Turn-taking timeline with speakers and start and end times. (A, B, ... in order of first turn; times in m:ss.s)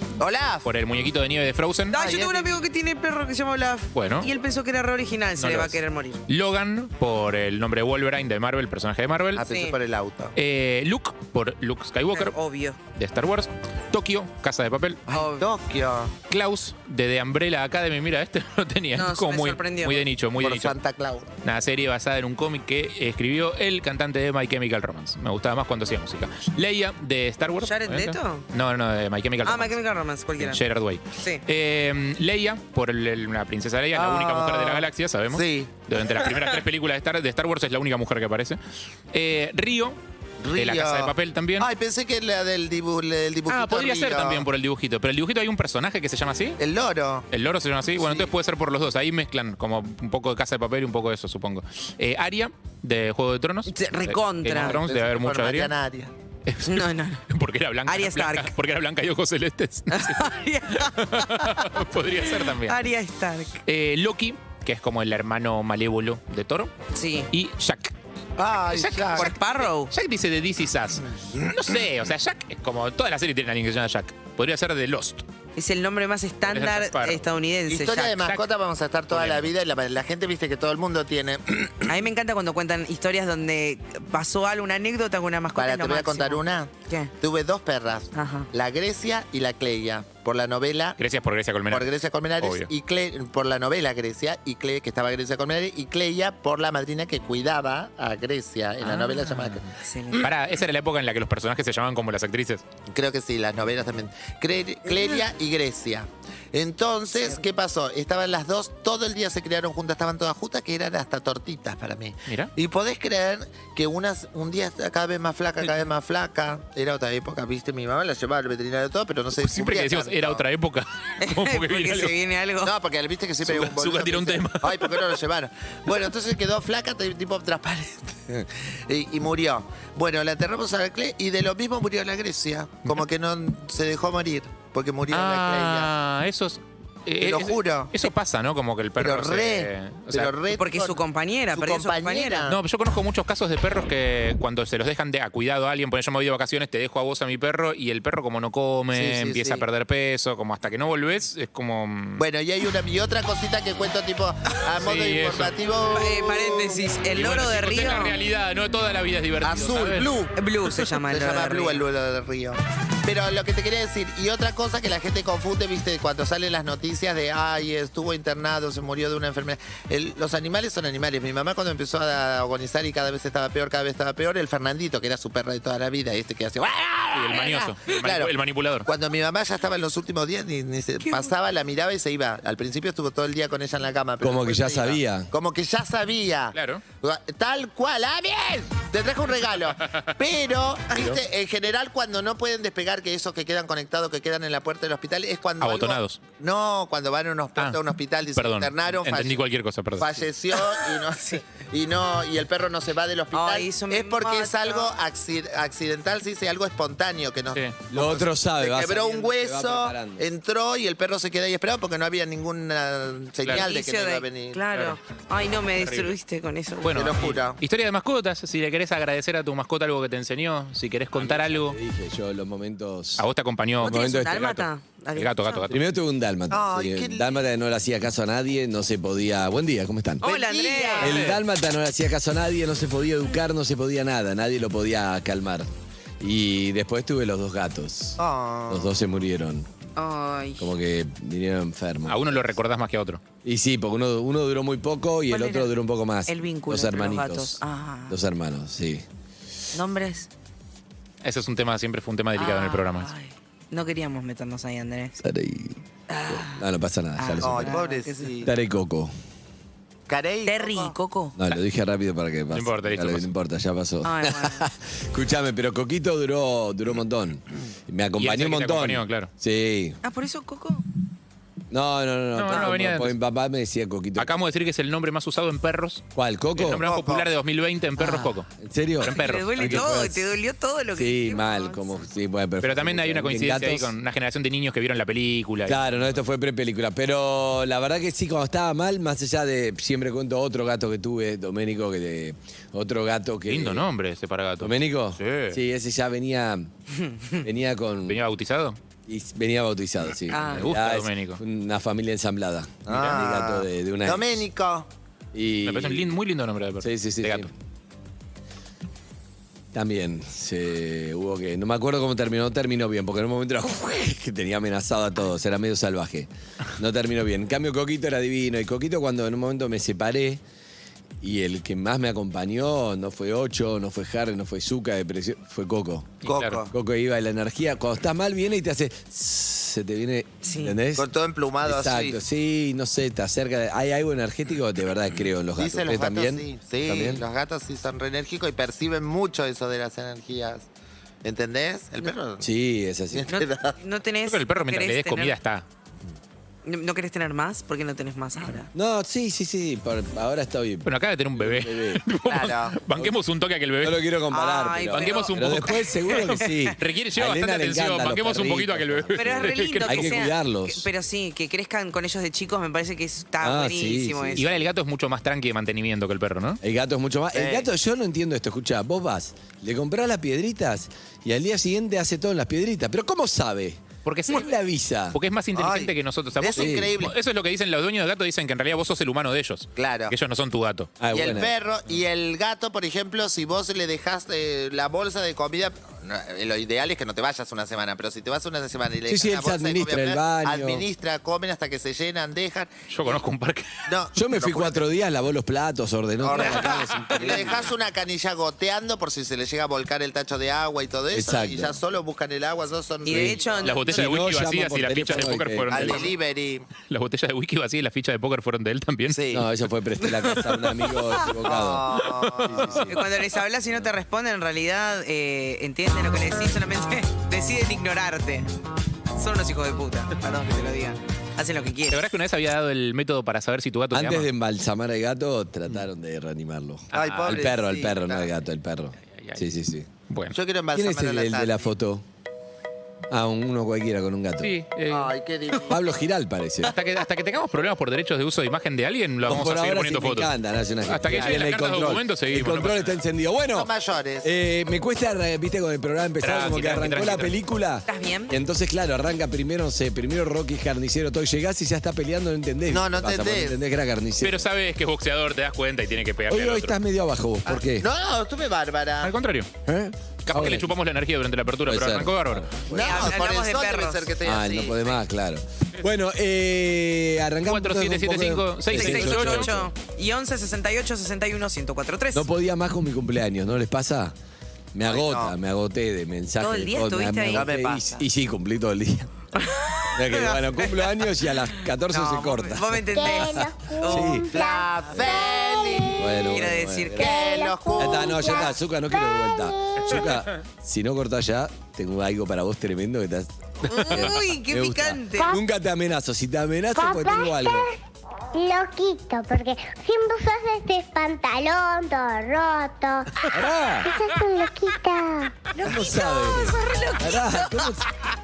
0:00.2-0:00.7 A
0:00.6-0:02.0 B
0:01.9-0:06.2 C
0:01.9-0:02.6 A
0:03.9-0:04.3 B
0:05.4-0:09.4 B
0:09.3-0:10.4 A
0:09.5-0:09.7 C
0:10.4-0:12.4 B
0:12.1-0:12.8 C
0:12.9-0:15.0 B
0:15.1-0:15.4 C
0:15.1-0:16.2 A
0:16.3-0:20.8 B
0:18.9-0:20.0 C
0:20.4-0:21.3 A
0:21.4-0:29.8 B
0:27.6-0:28.4 C
0:29.4-0:30.6 C
0:30.4-0:38.6 B
0:31.1-0:31.4 C
0:33.9-0:35.7 A
0:36.2-0:36.5 C
0:39.1-0:40.0 B
0:40.4-0:44.5 A
0:40.5-0:41.7 B
0:43.5-0:46.6 B
0:46.6-0:47.3 A
0:47.3-0:55.7 B
0:53.7-0:54.8 C
0:54.6-0:56.1 A
0:56.4-1:02.8 B
0:56.6-0:57.2 C
0:57.9-0:58.5 C
0:59.9-1:03.6 C
1:03.6-1:06.7 B
1:06.9-1:07.3 C
1:07.3-1:07.9 B
1:08.4-1:09.3 A
1:08.7-1:15.2 B
1:09.1-1:09.9 C
1:15.6-1:18.2 C
1:16.5-1:17.2 B
1:17.7-1:21.9 A
1:19.1-1:19.5 B
1:21.8-1:27.1 C
1:25.5-1:31.0 A
1:28.1-1:28.5 C
1:31.0-1:31.9 B
1:31.7-1:40.3 A
1:32.4-1:32.7 B
1:38.8-1:39.5 B
1:39.6-1:40.3 C
1:40.2-1:42.6 B
1:42.9-2:00.4 A
1:59.4-2:02.1 B
2:01.2-2:02.7 C
2:02.6-2:15.9 A
2:03.4-2:05.1 B
2:15.1-2:20.3 B
2:17.2-2:18.0 A
2:19.0-2:21.0 A
2:20.5-2:22.5 C
2:21.5-2:22.6 A
2:22.5-2:32.2 B
2:28.9-2:29.6 A
2:32.2-2:36.8 A
2:34.8-2:35.5 B
2:35.9-2:38.2 C
2:37.1-2:40.1 B
2:39.4-2:40.3 A
2:40.3-2:41.8 C
2:40.9-2:58.3 A
2:57.1-2:58.9 B
2:58.8-3:19.4 A
3:01.0-3:01.3 C
3:04.2-3:05.3 D
3:06.5-3:06.8 B
3:15.6-3:16.2 B
3:18.4-3:20.2 B
3:20.0-3:34.6 A
3:21.1-3:21.4 C
3:23.3-3:24.9 C
3:27.9-3:30.3 D
3:33.5-3:37.1 C
3:35.7-3:36.2 B
3:36.8-3:41.8 B
3:36.9-3:37.6 A
3:41.1-3:43.3 D
3:43.2-3:45.7 B
3:43.8-3:45.7 C
3:43.9-3:44.5 D
3:45.7-3:50.2 D
3:46.5-3:47.4 A
3:50.2-3:51.2 C
3:50.2-3:51.2 A
3:51.0-3:55.7 D
3:51.0-3:51.4 B
3:56.2-3:59.7 D
3:58.2-3:58.9 A
4:00.0-4:00.7 C
4:00.6-4:02.5 D
4:02.0-4:03.2 B
4:03.4-4:09.0 D
4:05.3-4:05.7 C
4:06.3-4:08.2 C
4:09.7-4:10.3 C
4:11.2-4:13.1 B
4:12.4-4:15.2 C
4:15.2-4:17.8 D
4:16.1-4:16.6 C
4:17.2-4:18.4 C
4:17.4-4:18.5 A
4:18.4-4:19.1 D
4:20.1-4:20.9 A
4:20.4-4:21.4 C
4:21.4-4:30.0 D
4:22.5-4:23.3 B
4:24.0-4:24.7 C
4:28.2-4:29.3 B
4:30.0-4:30.8 C
4:31.7-4:34.3 D
4:32.3-4:33.2 B
4:34.2-4:39.9 B
4:36.1-4:36.8 D
4:36.8-4:37.3 A
4:38.0-4:38.3 C
4:38.5-4:40.3 D
4:39.0-4:42.0 C
4:40.9-4:43.9 D
4:42.6-4:45.8 B
4:45.6-4:53.9 D
4:53.5-4:55.6 B
4:54.6-4:56.7 D
4:56.9-4:57.4 C
4:57.4-4:58.2 D
4:58.1-4:58.8 B
4:59.1-5:04.4 D
5:00.3-5:00.7 C
5:00.4-5:01.4 B
5:02.8-5:04.9 A
5:02.9-5:03.2 B
5:05.3-5:06.1 D
5:05.6-5:07.5 B
5:06.8-5:07.5 D
5:09.7-5:20.4 D
5:21.2-5:26.2 D
5:26.2-5:26.6 B
5:26.2-5:26.7 A
5:26.7-5:31.1 D
5:30.4-5:30.8 C
5:31.0-5:32.2 A
5:31.6-5:37.2 D
5:35.6-5:40.7 A
5:41.2-5:42.4 A
5:42.4-5:43.3 D
5:43.1-5:43.8 A
5:43.3-5:45.3 C
5:44.2-5:45.6 B
5:46.6-5:48.7 C
5:48.7-5:52.0 D
5:50.8-5:54.1 B
5:52.2-5:52.8 A
5:52.9-5:53.2 D
5:53.8-6:00.9 D
5:54.3-5:56.7 C
5:54.9-6:00.2 B
5:59.1-6:04.4 C
6:03.4-6:04.6 D
6:04.4-6:06.6 B
6:06.6-6:15.2 D
6:07.3-6:07.7 A
6:14.0-6:14.5 B
6:15.1-6:20.9 B
6:15.5-6:17.1 A
6:16.5-6:16.9 D
6:19.8-6:20.1 A
6:21.0-6:21.5 D
6:21.1-6:33.2 A
6:29.1-6:30.9 D
6:32.9-6:33.7 B
6:33.8-6:34.8 A
6:34.1-6:37.7 D
6:36.2-6:43.7 A
6:36.3-6:37.6 C
6:41.1-6:41.8 D
6:43.0-6:44.0 C
6:43.1-6:46.1 D
6:43.6-6:46.1 B
6:45.7-6:46.7 A
6:46.8-6:49.2 B
6:49.1-6:49.5 A
6:49.3-6:53.3 D
6:50.0-6:51.3 C
6:51.4-6:52.8 A
6:52.8-6:58.5 C
6:59.1-7:02.0 C
7:01.9-7:04.3 B
7:03.9-7:09.9 D
7:06.9-7:07.6 B
7:06.9-7:08.3 A
7:09.2-7:09.4 B
7:10.1-7:10.4 B
7:10.3-7:11.7 A
7:10.7-7:12.0 D
7:13.1-7:14.5 D
7:14.4-7:15.1 B
7:14.9-7:15.7 A
7:15.7-7:16.8 D
7:16.6-7:20.3 B
7:19.2-7:23.7 D
7:20.8-7:23.0 B
7:21.1-7:21.6 A
7:23.5-7:24.3 A
7:24.2-7:34.5 D
7:26.2-7:27.4 B
7:27.9-7:28.3 C
7:32.7-7:33.5 A
7:34.2-7:36.8 B
7:36.3-7:37.9 D
7:37.5-7:39.1 A
7:39.0-7:39.5 B
7:39.6-7:40.8 D
7:40.2-7:42.5 B
7:41.7-7:43.2 D
7:42.7-7:45.0 A
7:42.7-7:44.1 C
7:44.2-7:49.7 D
7:47.4-7:49.6 B
7:48.7-7:52.3 C
7:52.1-7:54.1 D
7:54.7-7:59.1 D
7:54.8-7:55.4 A
7:56.4-7:57.5 C
7:57.3-7:58.0 A
7:59.3-8:04.2 C
7:59.9-8:04.3 D
8:02.0-8:02.4 A
8:02.8-8:10.2 E
8:04.3-8:06.0 A
8:06.0-8:07.1 D
8:06.3-8:07.1 C
8:07.0-8:08.5 A
8:07.7-8:17.7 D
8:09.8-8:10.4 B
8:13.6-8:15.4 C
8:15.1-8:15.4 E
8:16.7-8:17.7 E
8:18.3-8:26.5 E
8:23.3-8:23.9 D
8:25.6-8:27.9 D
8:25.8-8:27.8 C